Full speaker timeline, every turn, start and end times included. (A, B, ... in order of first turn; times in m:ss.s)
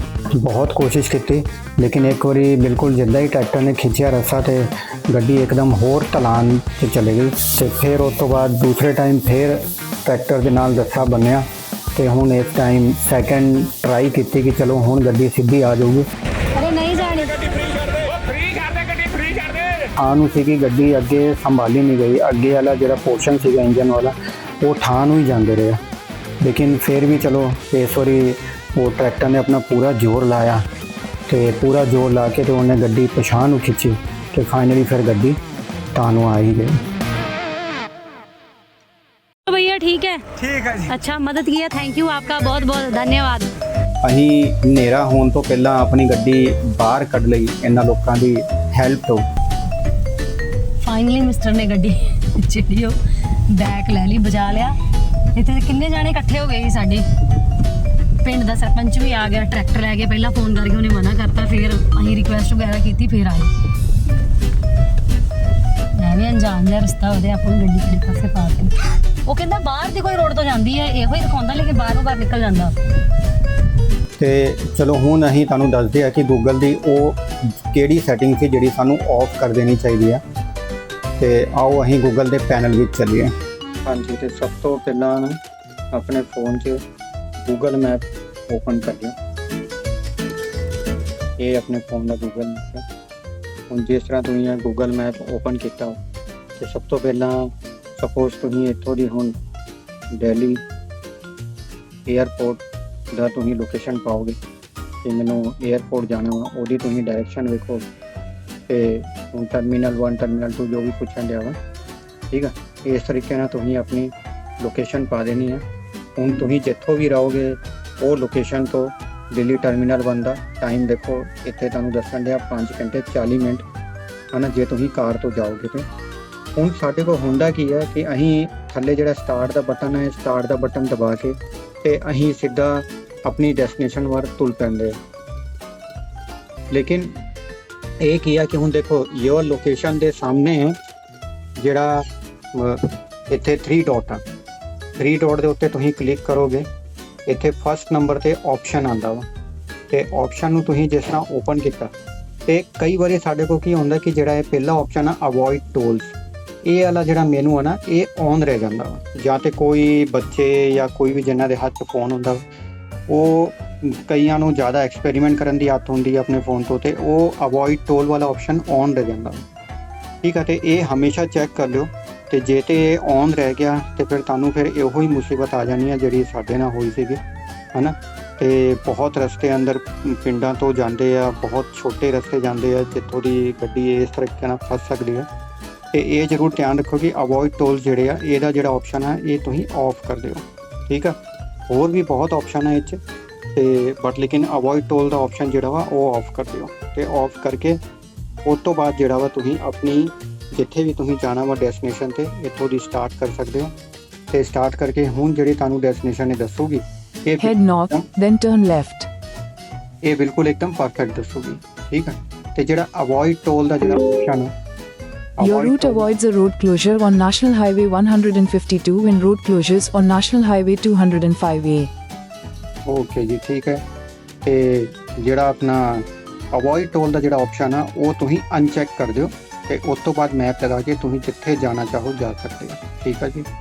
0:00.3-0:16.1 A
0:16.5-0:17.4 B
0:20.0-0:25.8 A
0:26.4-0:30.6 A
0:31.3-0:35.4 A
0:35.9-0:36.8 A
0:39.4-0:43.5 B
0:44.0-0:49.2 A
0:50.8-0:53.0 B
0:53.5-0:54.8 B
0:55.3-0:57.0 B
0:58.2-1:03.5 B
1:05.9-1:08.7 B
1:09.2-1:12.7 B
1:14.2-1:20.2 A
1:21.2-1:23.3 A
1:23.8-1:25.4 A
1:25.9-1:26.8 A
1:27.4-1:29.2 A
1:31.4-1:32.8 A
1:33.7-1:36.0 A
1:36.6-1:39.4 A
1:40.1-1:40.6 A
1:42.1-1:42.6 A
1:43.1-1:44.4 A
1:45.0-1:47.8 A
1:48.7-1:51.6 A
1:52.3-1:55.6 A
1:56.2-2:03.6 A
2:04.3-2:05.9 A
2:06.6-2:15.0 A
2:16.7-2:17.2 A
2:18.0-2:20.8 A
2:21.6-2:24.2 A
2:25.0-2:26.6 A
2:27.2-2:29.3 A
2:29.9-2:31.9 A
2:32.5-2:42.4 A
2:43.1-2:49.4 A
2:50.2-2:57.2 A
2:57.7-3:05.3 A
3:05.9-3:11.2 A
3:11.7-3:13.0 A
3:13.5-3:17.8 A
3:18.4-3:23.7 A
3:24.3-3:28.0 A
3:27.4-3:29.1 C
3:30.0-3:34.5 A
3:35.4-3:36.1 A
3:35.4-3:41.9 C
3:42.9-3:43.8 A
3:44.4-3:53.4 A